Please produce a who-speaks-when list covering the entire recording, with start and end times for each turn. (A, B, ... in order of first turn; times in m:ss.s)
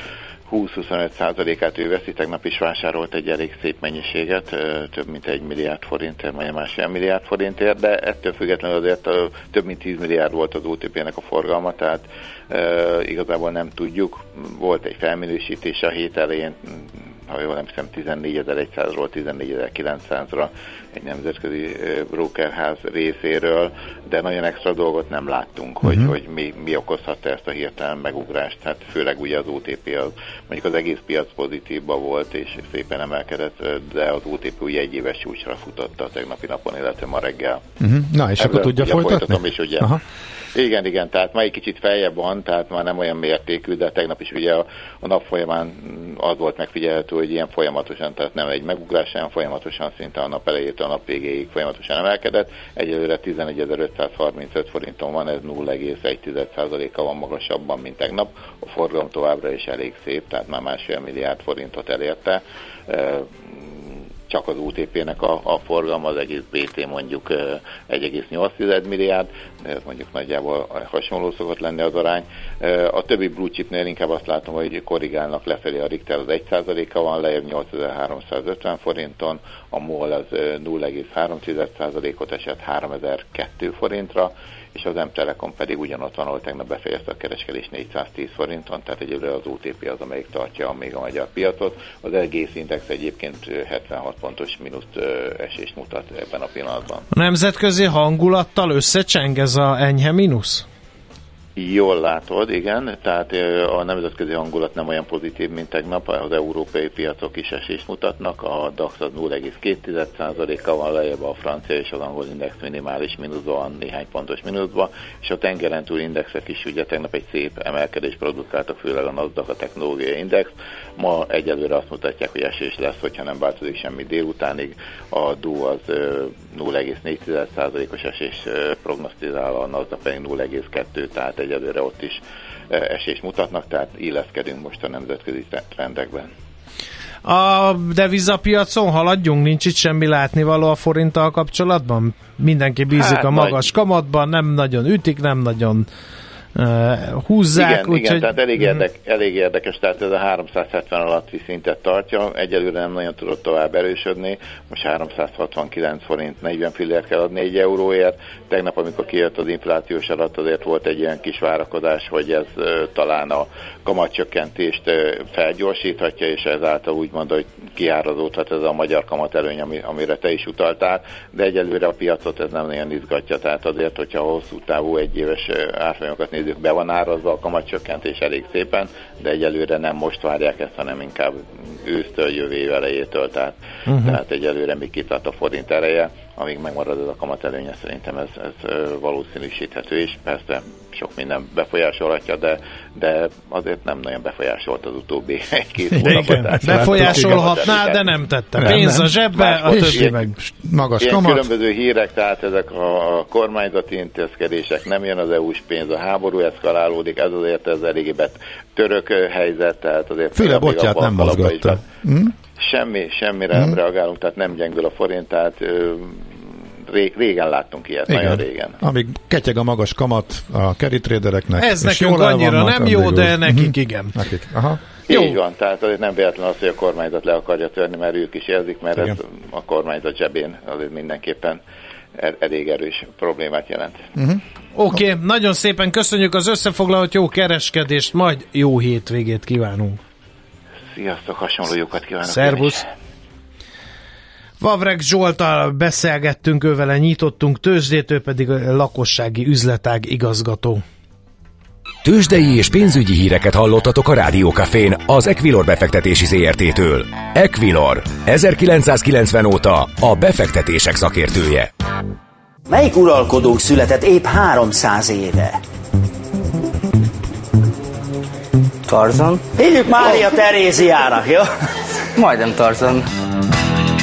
0:00.5-0:37.6 A
0:25.8-0:26.1 B
0:37.8-0:40.0 B
0:38.4-0:40.0 A
0:40.5-1:37.1 A
1:37.1-1:40.6 C
1:41.6-2:16.3 A
2:17.2-2:25.9 C
2:22.9-2:23.6 A
2:26.5-2:28.8 C
2:27.5-3:18.8 A
3:03.9-3:04.2 C
3:15.9-3:17.4 B
3:16.0-3:20.3 C
3:18.6-3:19.1 B
3:19.3-3:20.2 A
3:19.7-3:21.5 B
3:21.0-3:31.8 A
3:30.3-3:32.3 B
3:32.6-3:38.8 A
3:38.1-3:44.8 B
3:41.6-3:44.1 C
3:45.1-3:51.6 A
3:45.1-3:45.3 C
3:52.2-3:54.1 A
3:54.2-3:54.4 B
3:54.7-4:00.0 C
4:00.9-4:02.9 A
4:02.2-4:02.8 C
4:04.6-4:10.8 C
4:12.0-4:21.7 D
4:22.7-4:25.6 E
4:28.9-4:31.5 E
4:32.1-4:33.1 E